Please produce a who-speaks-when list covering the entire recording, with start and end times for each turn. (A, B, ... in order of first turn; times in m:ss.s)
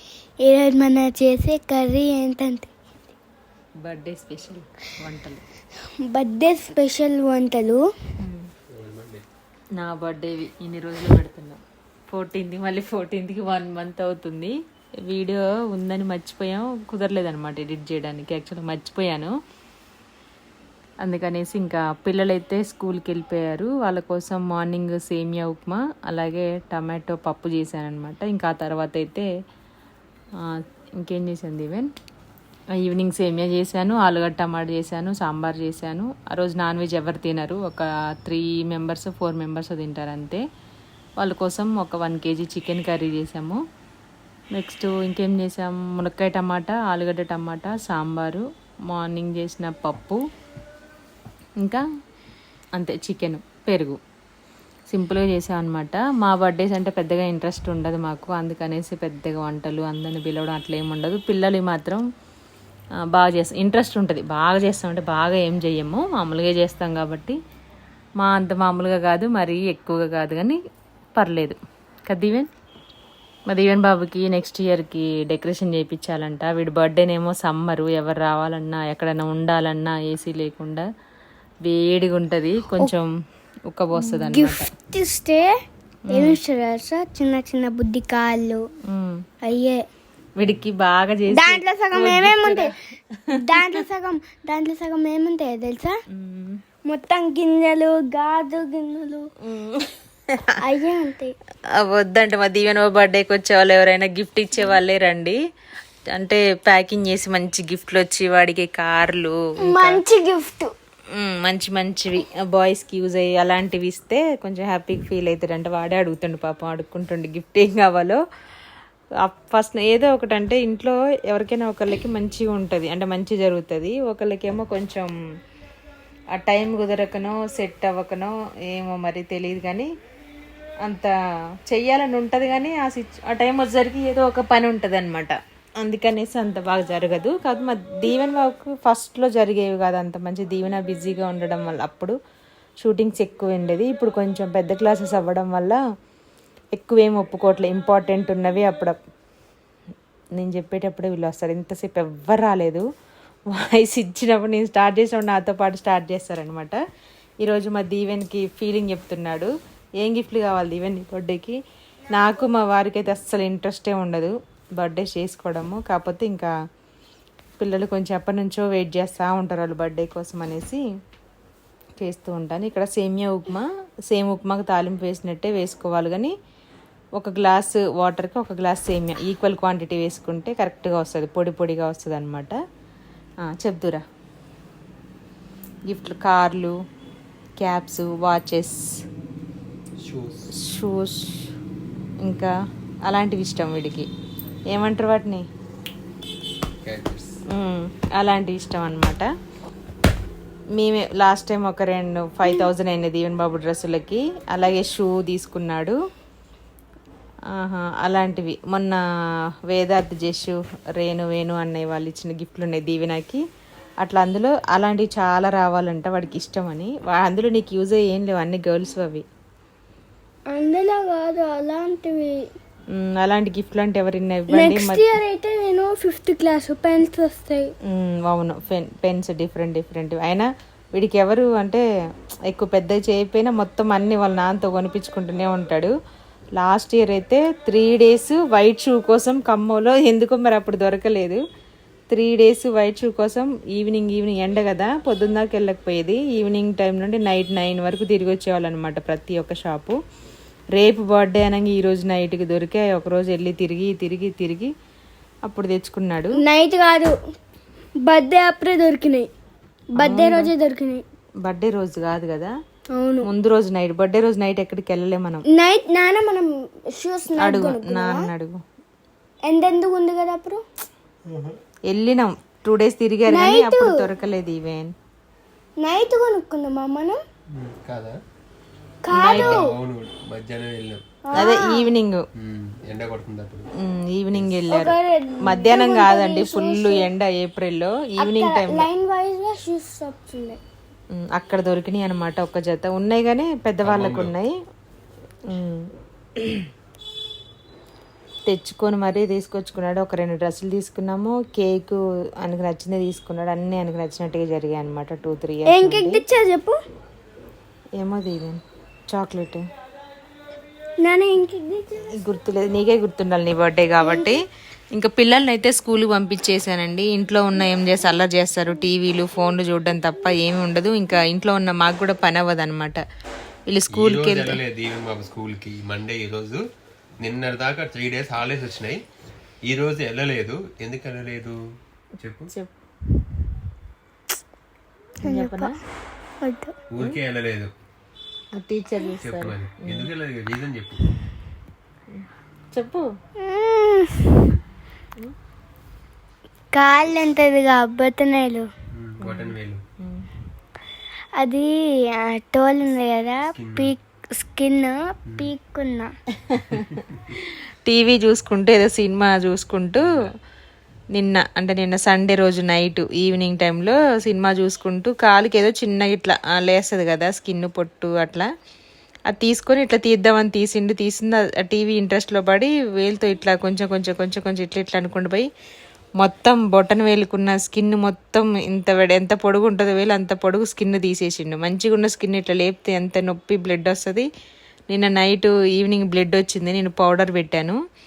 0:00.4-0:02.7 A
0:03.8-0:05.4 B
0:06.0-0:07.8 A
0:08.2-0:08.5 B
0:08.7-0:09.2 C
0:09.8-0:19.3 B
0:21.0-0:29.3 B
0:30.4-0:31.9 B
0:32.7-0:40.4 B
0:41.2-0:43.6 B
0:44.5-0:50.2 B
0:52.7-0:54.0 B
0:54.9-1:02.0 B
1:03.0-1:07.4 B
1:08.2-1:10.6 B
1:11.1-1:12.5 B
1:13.5-1:20.9 B
1:21.6-1:23.1 B
1:23.7-1:24.6 B
1:24.0-1:25.5 A
1:26.1-1:28.6 A
1:26.1-1:26.4 B
1:28.8-1:29.2 B
1:29.4-1:29.8 A
1:30.4-1:33.8 B
1:31.3-1:32.7 A
1:33.3-1:36.0 A
1:36.1-1:36.6 B
1:36.8-1:39.3 A
1:39.4-1:40.6 B
1:40.6-1:41.3 A
1:41.7-1:45.4 B
1:46.1-1:50.0 B
1:49.6-1:50.7 A
1:51.1-1:58.2 B
1:59.2-2:05.1 B
2:06.3-2:09.9 B
2:10.8-2:11.1 B
2:11.6-2:22.2 B
2:22.8-2:25.8 B
2:26.7-2:29.0 B
2:30.4-2:32.9 B
2:33.5-2:36.8 B
2:37.4-2:41.6 B
2:42.1-2:46.5 B
2:47.6-2:50.8 B
2:52.0-2:56.3 B
2:57.2-3:02.6 B
3:03.4-3:04.0 B
3:05.9-3:06.8 B
3:07.6-3:09.0 B
3:10.0-3:10.5 C
3:10.5-3:11.5 B
3:12.2-3:12.5 B
3:13.0-3:14.1 B
3:14.7-3:15.4 B
3:16.8-3:17.4 C
3:17.5-3:19.3 B
3:20.8-3:26.0 B
3:27.5-3:29.0 B
3:29.7-3:33.4 B
3:34.0-3:39.2 B
3:40.5-3:42.5 A
3:42.9-3:45.0 B
3:44.5-3:47.7 A
3:47.8-3:51.8 B
3:52.5-3:55.9 B
3:56.6-4:01.4 B
4:02.1-4:10.0 B
4:10.7-4:14.7 B
4:15.4-4:16.4 B
4:16.3-4:17.2 A
4:18.0-4:19.3 A
4:19.9-4:21.0 A
4:20.0-4:20.5 B
4:21.4-4:22.5 B
4:22.9-4:23.3 A
4:23.2-4:25.4 B
4:25.5-4:28.3 A
4:27.4-4:28.6 B
4:29.4-4:30.6 A
4:31.2-4:31.6 C
4:31.9-4:34.9 B
4:33.3-4:34.0 A
4:35.8-4:37.2 A
4:37.5-4:38.2 C
4:39.0-4:39.7 A
4:39.1-4:39.6 B
4:39.2-4:41.0 C
4:41.3-4:41.9 A
4:41.3-4:42.2 B
4:42.4-4:43.7 C
4:43.8-4:48.9 B
4:44.7-4:47.1 A
4:48.2-4:50.6 A
4:51.1-4:54.6 B
4:53.8-4:54.3 C
4:55.4-4:56.7 B
4:58.5-5:06.2 B
5:05.6-5:06.8 A
5:08.0-5:09.6 B
5:11.0-5:12.2 A
5:12.1-5:14.4 B
5:14.0-5:14.4 A
5:14.9-5:23.0 B
5:23.7-5:24.6 B
5:23.9-5:26.6 C
5:27.2-5:29.0 C
5:29.6-5:31.6 C
5:32.2-5:32.5 C
5:35.2-5:35.7 A
5:35.2-5:35.7 B
5:36.4-5:36.8 A
5:36.9-5:37.7 C
5:38.5-5:40.1 B
5:39.2-5:41.0 C
5:42.1-5:43.1 B
5:43.4-5:44.5 A
5:46.7-5:48.7 A
5:48.9-5:49.8 C
5:49.2-5:50.2 B
5:51.4-5:56.1 A
5:53.5-5:53.9 C
5:56.4-6:00.2 B
5:56.7-5:57.2 C
6:01.1-6:08.5 B
6:09.3-6:15.5 B
6:16.2-6:24.3 B
6:24.9-6:27.8 B